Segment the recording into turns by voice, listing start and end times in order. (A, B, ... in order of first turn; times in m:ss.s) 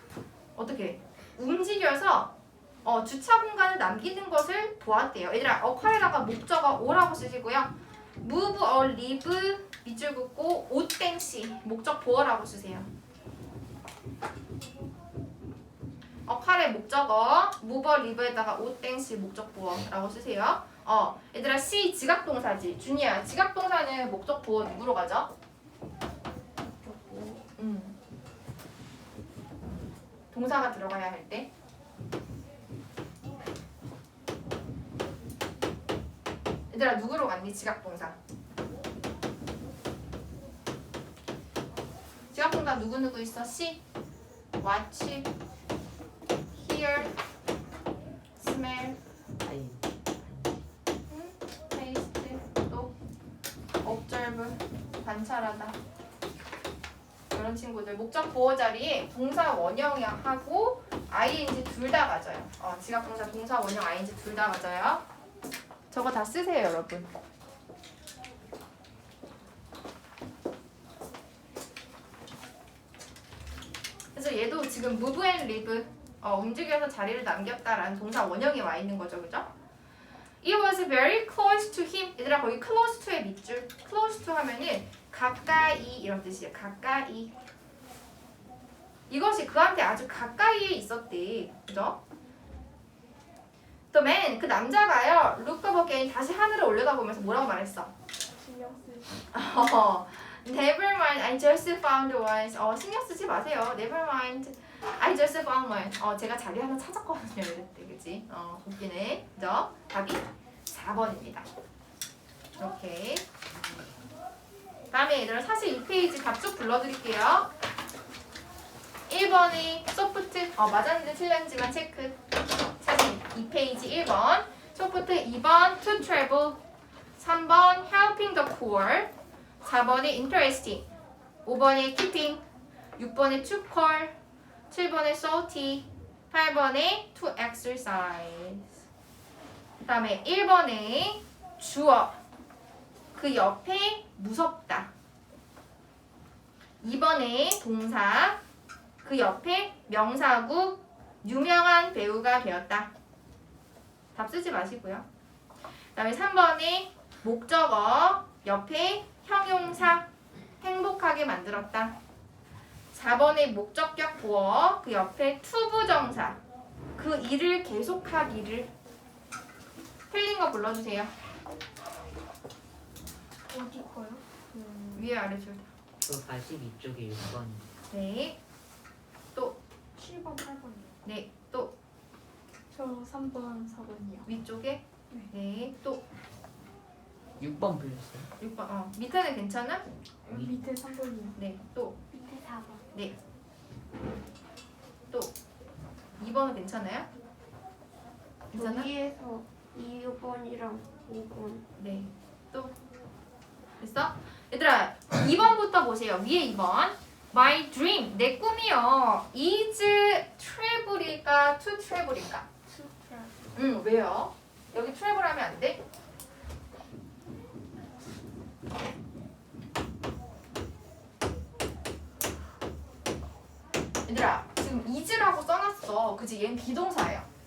0:00.5-0:12.9 A
0:16.2-0:25.3 A
0:26.6-0:27.4 B
0:27.6-0:28.0 A
0:30.3-0:31.5 A
0:36.7-0:38.2 A
0:42.3-0:43.8 A
0:44.6-0:45.3 A
0:46.5-0:47.2 A
0:48.4-0:49.0 A
0:49.4-0:50.6 C
0:51.1-0:52.9 A
0:53.8-0:55.8 A
0:57.3-1:05.0 A
1:05.9-1:07.1 A
1:14.1-1:19.5 A
1:20.4-1:27.3 A
1:29.1-1:32.0 A
1:33.9-1:37.9 A
1:38.3-1:39.2 D
1:39.3-1:51.5 A
1:52.6-1:53.2 A
1:54.9-1:57.5 A
1:59.1-2:02.2 A
2:02.8-2:06.6 A
2:07.2-2:09.1 A
2:09.6-2:10.8 A
2:11.4-2:12.4 A
2:13.0-2:14.1 A
2:14.7-2:18.7 A
2:19.8-2:22.2 A
2:23.1-2:24.9 A
2:26.8-2:28.4 A
2:29.0-2:32.9 A
2:34.1-2:35.0 A
2:35.9-2:40.1 A
2:40.6-2:42.0 A
2:42.9-2:46.4 A
2:47.0-2:48.7 A
2:50.1-2:51.1 A
2:53.5-2:55.1 D
2:55.0-2:55.7 A
2:56.0-2:57.7 C
2:57.9-2:58.4 A
3:00.0-3:01.0 D
3:01.0-3:01.7 A
3:02.7-3:04.3 D
3:04.2-3:06.0 A
3:07.4-3:08.3 C
3:08.4-3:09.8 A
3:10.2-3:11.4 D
3:10.3-3:10.5 C
3:11.4-3:12.0 A
3:12.1-3:12.8 D
3:12.1-3:12.8 B
3:16.2-3:17.1 A
3:18.5-3:18.9 A
3:18.5-3:21.6 B
3:21.8-3:22.7 A
3:23.8-3:32.4 A
3:32.6-3:33.5 D
3:33.5-3:35.8 A
3:44.0-3:47.3 A